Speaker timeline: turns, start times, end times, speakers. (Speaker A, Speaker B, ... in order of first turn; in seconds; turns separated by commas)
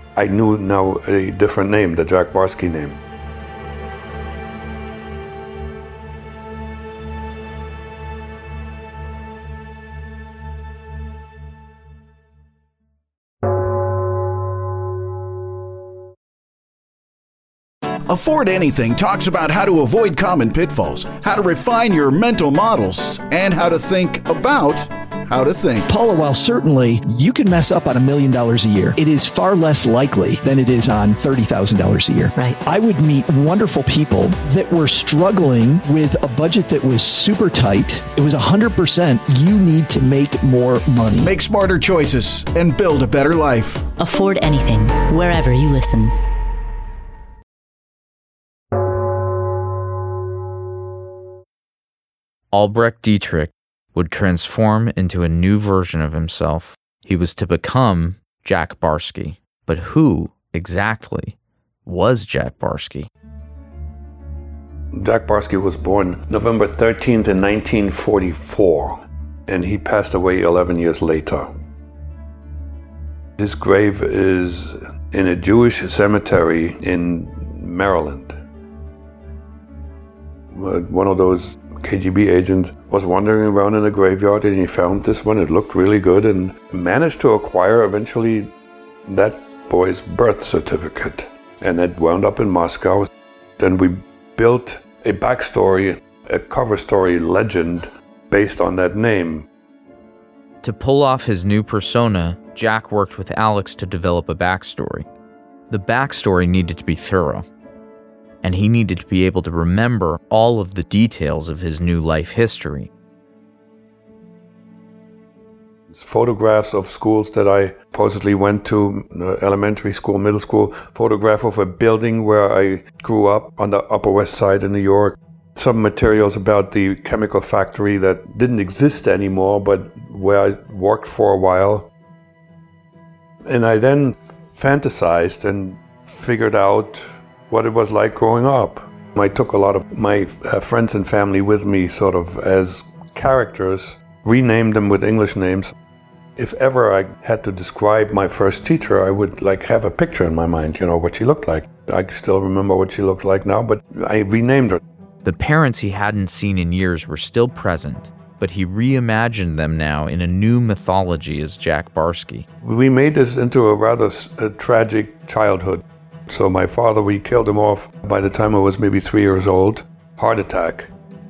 Speaker A: 0.2-3.0, Speaker B: 18.1-25.9, Speaker C: 25.9-41.3, Speaker B: 41.2-43.9, Speaker D: 44.0-46.1, Speaker E: 52.5-63.1, Speaker A: 64.9-71.5, Speaker A: 73.4-78.4, Speaker A: 80.5-88.5, Speaker A: 89.1-99.5, Speaker E: 100.6-105.1, Speaker E: 105.7-107.4, Speaker E: 108.4-112.9, Speaker A: 115.9-131.9, Speaker A: 133.4-145.7, Speaker A: 146.4-154.8, Speaker E: 155.2-162.5, Speaker A: 162.6-170.9